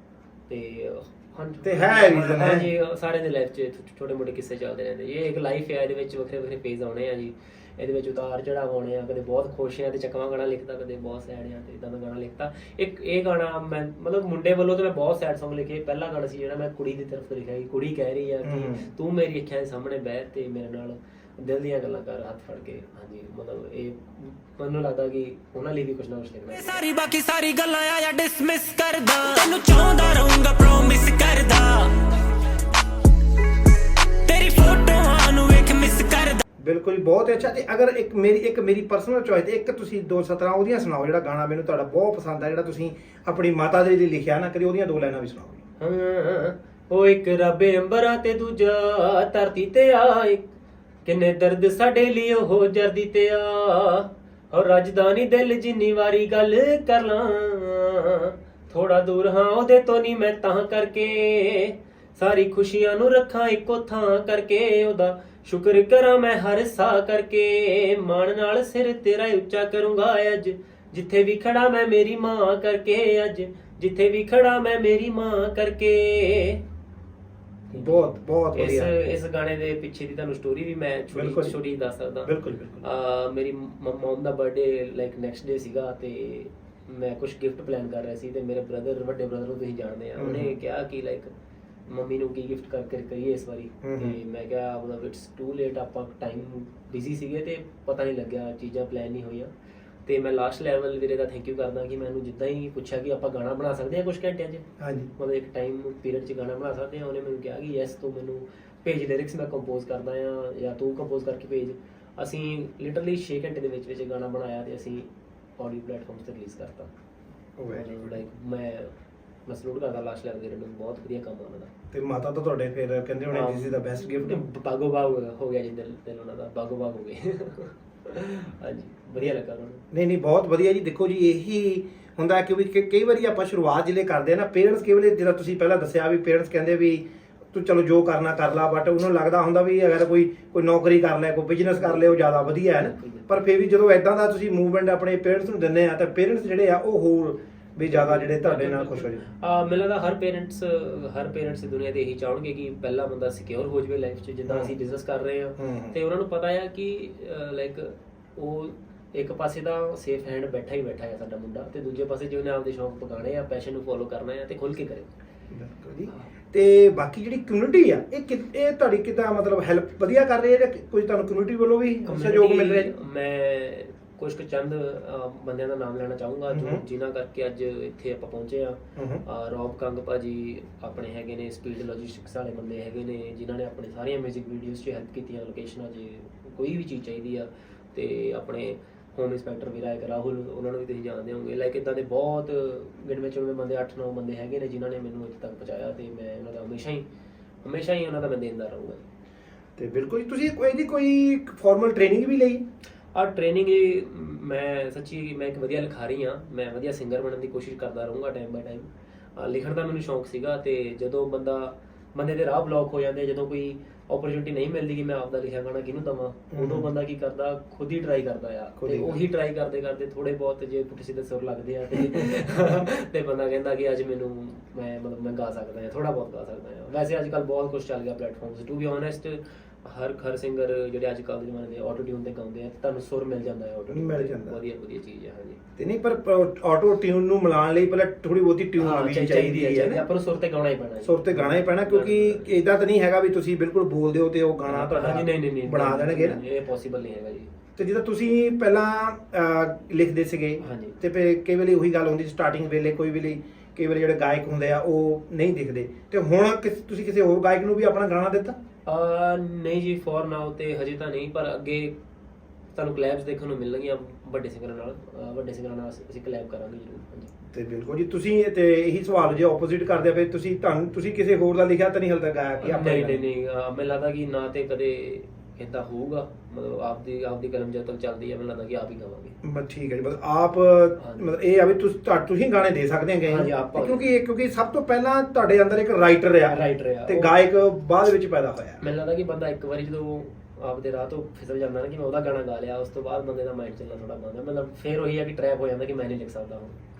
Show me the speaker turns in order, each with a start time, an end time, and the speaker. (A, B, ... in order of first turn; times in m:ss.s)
0:00.5-0:26.8 A
0:01.6-0:02.7 B
0:18.4-0:18.9 B
0:26.5-0:32.2 C
0:34.2-0:36.4 C
0:36.6-0:45.6 B
0:45.8-0:50.5 A
0:51.0-1:16.6 A
1:17.7-1:31.3 A
1:17.7-1:18.9 B
1:21.1-1:21.6 B
1:22.2-1:22.8 B
1:30.2-1:30.6 B
1:31.9-1:39.5 A
1:33.8-1:34.2 B
1:40.0-1:56.9 A
1:44.8-1:45.1 B
1:57.6-1:58.2 B
1:57.7-1:58.9 A
1:59.4-2:01.7 A
2:01.9-2:04.4 B
2:03.3-2:09.8 A
2:09.9-2:29.2 B
2:21.8-2:23.3 A
2:27.8-2:45.1 A
2:34.5-2:34.7 B
2:35.6-2:36.0 B
2:45.5-2:52.9 B
2:52.0-3:17.0 A
2:56.5-2:56.8 B
2:59.0-2:59.2 B
3:17.6-3:19.0 A
3:19.8-3:22.6 B
3:23.1-3:55.6 A
3:36.5-3:36.9 B
3:38.8-3:39.2 B
3:42.0-3:42.4 B
3:53.9-3:54.6 B
3:55.8-4:00.0 B
3:58.8-4:02.6 A
4:01.0-4:06.4 B
4:04.7-4:07.5 A
4:07.8-4:18.6 B
4:10.6-4:11.0 A
4:18.9-4:21.9 A
4:22.7-4:27.3 A
4:27.5-4:33.2 B
4:32.6-4:39.4 A
4:39.4-4:48.8 B
4:41.0-4:41.3 A
4:43.2-4:44.0 A
4:46.5-4:47.3 A
4:48.8-4:56.8 A